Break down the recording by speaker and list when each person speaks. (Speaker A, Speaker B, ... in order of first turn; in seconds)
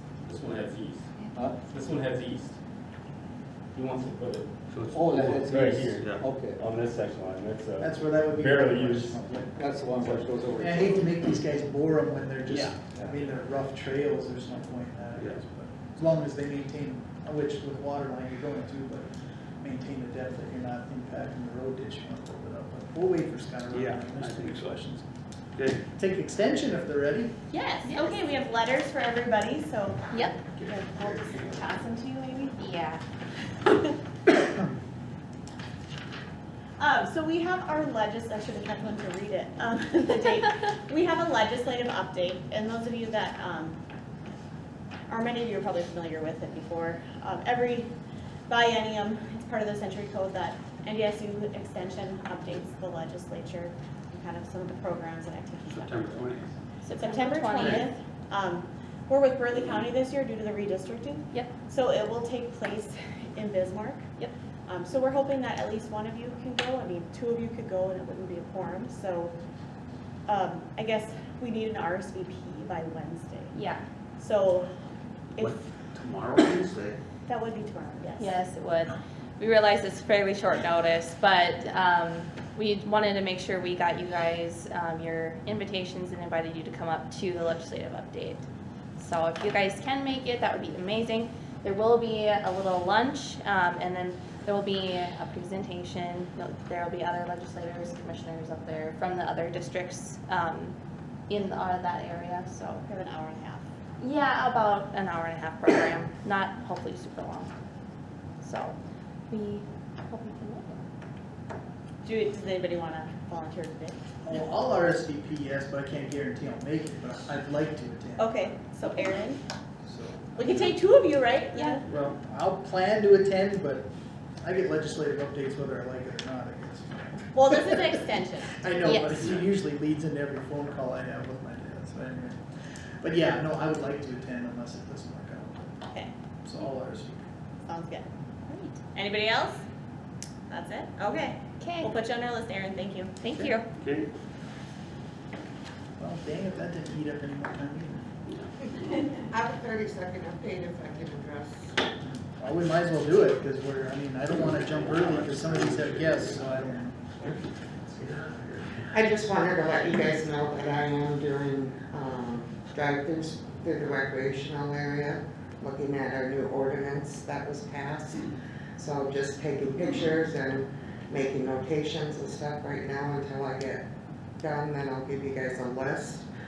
Speaker A: 0.3-1.1, 1.6-2.5, 3.7-9.2, 9.9-10.3
Speaker B: 1.3-1.6, 4.9-6.6, 9.2-11.1
Speaker C: 4.7-5.4, 5.9-6.2, 12.5-12.8, 23.7-24.8, 25.6-25.8, 55.6-56.5, 75.4-77.0, 143.8-144.1, 155.0-156.6, 157.2-158.9
Speaker D: 7.8-9.5, 10.6-19.1, 19.6-25.0, 25.9-27.3, 114.2-118.4, 119.8-120.5, 121.8-123.9, 124.4-127.7, 128.6-132.4, 133.0-135.8, 136.4-137.3, 146.0-148.0, 152.1-157.0
Speaker E: 27.5-32.6, 33.6-33.9, 36.8-43.8, 45.1-47.9, 48.5-56.3, 56.9-64.0, 64.7-69.3, 70.3-73.5, 74.2-74.7, 77.3-78.4, 102.7-103.7, 112.0-114.0, 118.2-119.4, 120.4-121.8, 127.3-128.6, 137.7-138.1, 138.9-139.6, 140.5-143.1
Speaker F: 27.8-28.2, 32.6-33.0, 56.8-57.9, 73.5-73.8, 78.2-88.5, 89.0-100.8, 101.3-102.8, 104.0-107.5, 108.4-108.8, 109.3-110.8, 128.8-129.2, 138.5-138.8, 141.6-141.9, 143.2-143.7
Speaker G: 149.2-151.8, 158.9-173.8, 174.4-176.2